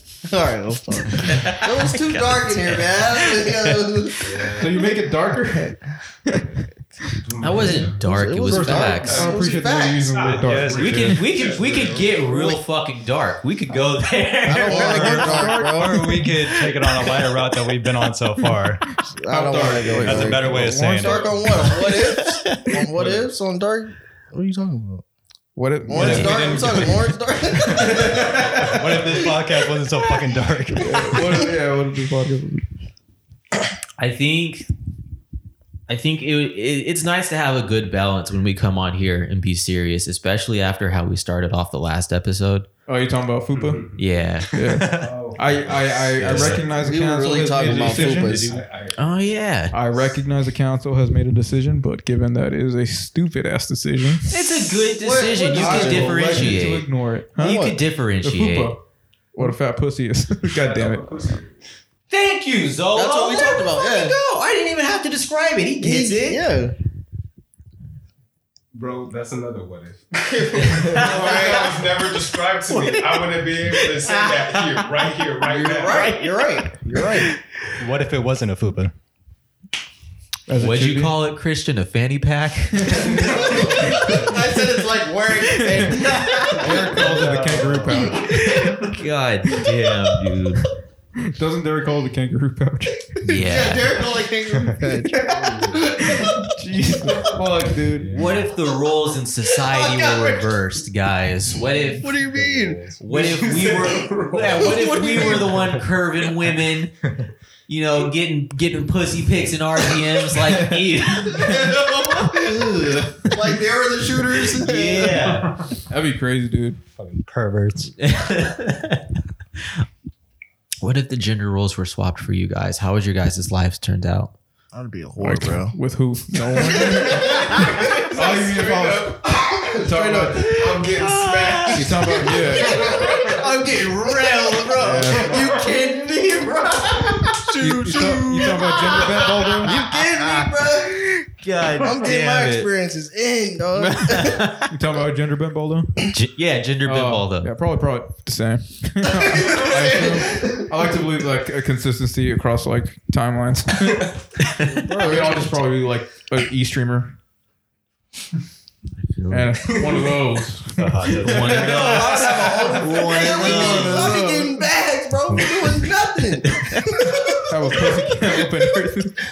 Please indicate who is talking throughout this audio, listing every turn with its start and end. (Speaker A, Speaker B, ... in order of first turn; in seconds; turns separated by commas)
Speaker A: 0.2-4.6, Speaker B: 1.3-3.8, Speaker C: 4.2-4.7, Speaker D: 4.5-6.5, Speaker E: 7.3-7.7, Speaker C: 7.4-7.9, Speaker B: 7.4-9.2, Speaker A: 8.0-10.4, Speaker C: 8.5-9.6, Speaker D: 9.1-11.2, Speaker C: 10.2-12.2, Speaker B: 10.7-15.6, Speaker E: 11.6-11.9, Speaker A: 14.4-16.2, Speaker D: 14.6-16.2, Speaker C: 15.0-18.9, Speaker B: 16.2-17.6, Speaker A: 19.1-25.0, Speaker D: 19.3-21.3, Speaker C: 19.9-21.8, Speaker B: 21.6-22.8, Speaker C: 22.9-23.2, Speaker D: 25.6-26.5, Speaker A: 25.9-28.3, Speaker C: 25.9-31.4, Speaker B: 26.0-26.6, Speaker D: 28.3-29.0, Speaker D: 30.8-32.6, Speaker B: 34.0-34.7, Speaker B: 35.9-42.7, Speaker D: 42.9-43.8, Speaker B: 44.0-44.5, Speaker D: 44.5-48.5, Speaker C: 44.6-45.3, Speaker E: 45.0-46.4, Speaker C: 46.1-46.6, Speaker A: 46.7-48.6, Speaker E: 47.3-49.0, Speaker C: 48.2-48.9, Speaker B: 49.0-49.7, Speaker D: 49.7-54.3, Speaker B: 54.3-56.9, Speaker A: 55.0-56.6, Speaker D: 55.5-57.5, Speaker A: 57.4-57.8, Speaker B: 57.4-58.8, Speaker D: 58.2-58.8, Speaker D: 59.3-61.2, Speaker E: 60.7-61.4, Speaker B: 62.1-66.4, Speaker A: 62.9-64.2, Speaker A: 65.8-66.7, Speaker E: 68.7-76.2, Speaker B: 70.8-71.7, Speaker B: 72.7-74.9, Speaker A: 75.4-77.3, Speaker B: 75.8-77.4, Speaker C: 77.8-78.9, Speaker D: 80.5-81.1, Speaker B: 80.6-83.8, Speaker A: 83.0-87.3, Speaker B: 85.7-86.6, Speaker D: 86.5-88.8, Speaker C: 86.7-88.2, Speaker B: 88.2-90.6, Speaker D: 91.3-93.2, Speaker B: 93.2-94.0, Speaker A: 93.2-96.4, Speaker C: 94.7-96.0, Speaker D: 95.1-98.2, Speaker C: 97.9-98.5, Speaker B: 98.1-102.0, Speaker A: 99.5-100.5, Speaker C: 101.7-103.5, Speaker A: 102.0-105.7, Speaker B: 103.0-106.9, Speaker E: 103.2-104.6, Speaker C: 104.3-105.8, Speaker C: 107.1-107.3, Speaker B: 107.7-113.0, Speaker A: 111.3-115.3, Speaker B: 114.5-115.5, Speaker C: 115.1-115.6, Speaker D: 115.9-116.8, Speaker C: 117.0-117.9, Speaker B: 118.0-119.0, Speaker B: 120.8-124.3, Speaker A: 124.7-125.7, Speaker D: 125.2-127.6, Speaker A: 126.5-130.8, Speaker E: 128.0-129.5, Speaker D: 128.1-129.2, Speaker D: 129.8-130.5, Speaker B: 130.4-133.3, Speaker E: 130.4-131.9, Speaker D: 131.7-132.8, Speaker A: 132.0-141.0, Speaker B: 134.0-135.6, Speaker D: 134.8-135.4, Speaker D: 137.6-139.8, Speaker B: 139.6-142.7, Speaker A: 141.7-144.5, Speaker B: 143.7-144.7, Speaker D: 144.7-146.0, Speaker B: 146.1-147.5, Speaker D: 146.8-154.1, Speaker A: 149.3-150.6, Speaker A: 154.7-155.6, Speaker D: 155.0-157.2, Speaker B: 159.0-160.0, Speaker D: 159.3-161.6, Speaker C: 160.7-162.4, Speaker B: 161.2-164.2, Speaker A: 161.5-168.4, Speaker D: 163.3-164.6, Speaker B: 166.6-167.1, Speaker D: 167.5-169.2